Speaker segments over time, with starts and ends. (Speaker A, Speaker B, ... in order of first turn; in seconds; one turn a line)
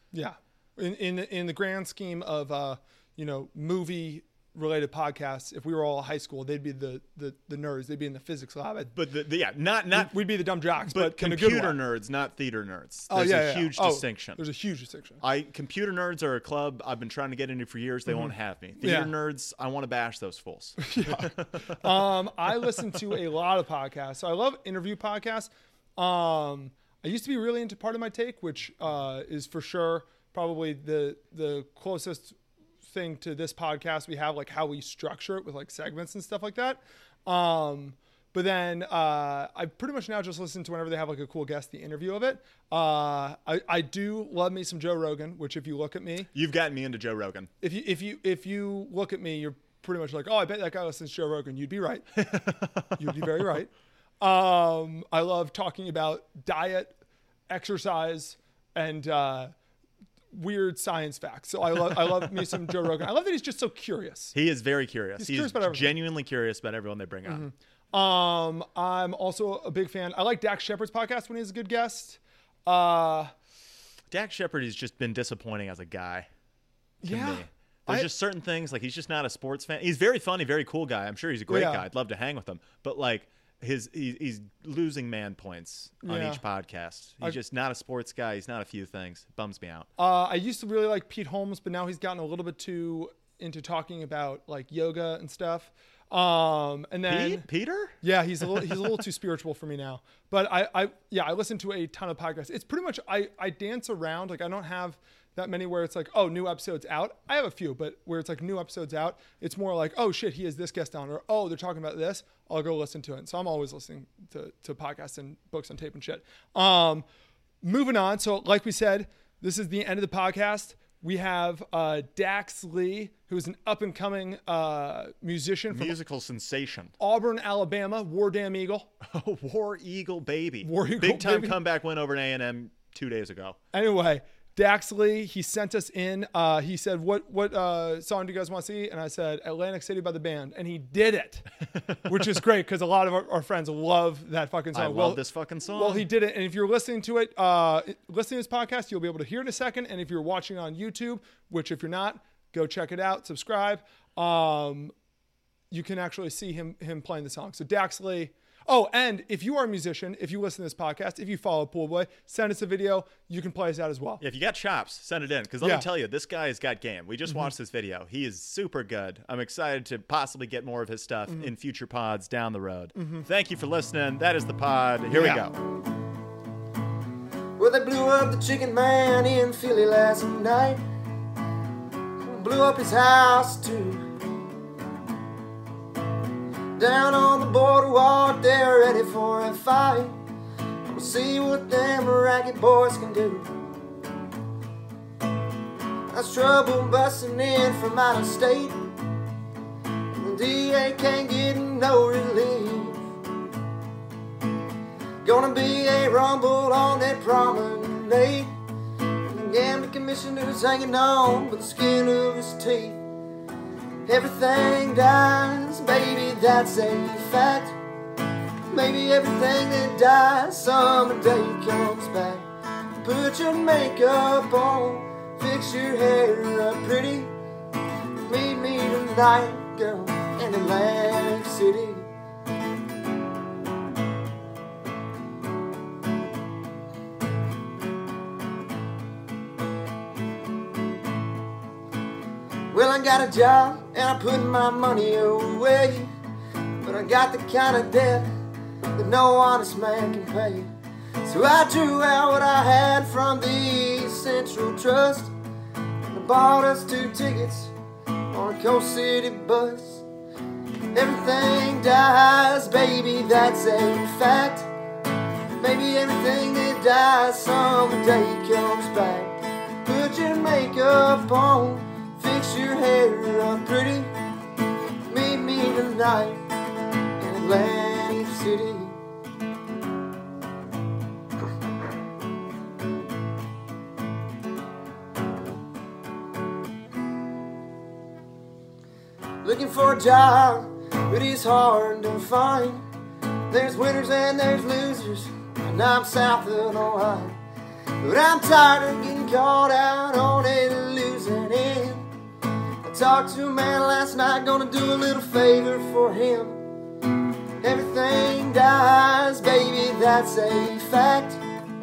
Speaker A: 0.1-8.9
Speaker B: 8.9-14.4
Speaker A: 9.9-11.8
Speaker A: 13.1-15.2
Speaker B: 15.2-21.8
Speaker A: 18.1-19.1
Speaker A: 20.8-46.3
Speaker B: 46.3-47.5
Speaker A: 47.6-52.4
Speaker B: 52.3-53.4
Speaker A: 52.9-57.0
Speaker A: 57.5-59.5
Speaker A: 60.3-64.3
Speaker B: 64.3-67.5
Speaker A: 65.2-66.0
Speaker A: 67.3-73.3
Speaker B: 74.1-76.3
Speaker A: 77.0-78.1
Speaker B: 77.0-89.9
Speaker A: 81.5-81.9
Speaker A: 86.0-86.4
Speaker A: 90.0-97.5
Speaker B: 97.1-98.0
Speaker A: 98.0-117.0
Speaker A: 117.6-126.0
Speaker B: 125.7-126.9
Speaker A: 127.0-128.9
Speaker B: 129.0-133.6
Speaker A: 130.6-131.6
Speaker A: 133.7-141.5
Speaker A: 142.0-154.9
Speaker B: 144.7-146.1
Speaker A: 155.7-164.2
Speaker B: 164.2-175.6
Speaker A: 165.6-165.9
Speaker A: 172.9-173.3
Speaker A: 175.1-175.5
Speaker C: 177.6-180.8
Speaker C: 182.2-184.1
Speaker C: 186.8-190.2
Speaker C: 190.8-193.5
Speaker C: 196.1-198.8
Speaker C: 200.1-203.0
Speaker C: 205.2-208.6
Speaker C: 209.2-213.0
Speaker C: 214.1-217.8
Speaker C: 218.7-222.5
Speaker C: 223.0-227.3
Speaker C: 228.2-232.1
Speaker C: 242.7-246.1
Speaker C: 246.8-248.3
Speaker C: 249.0-250.7
Speaker C: 251.2-255.3
Speaker C: 256.1-257.7
Speaker C: 258.3-260.1
Speaker C: 260.9-264.7
Speaker C: 265.6-274.1
Speaker C: 275.1-276.5
Speaker C: 277.2-279.0
Speaker C: 289.4-292.9
Speaker C: 293.5-297.4
Speaker C: 298.0-302.1
Speaker C: 302.8-306.6
Speaker C: 307.6-311.4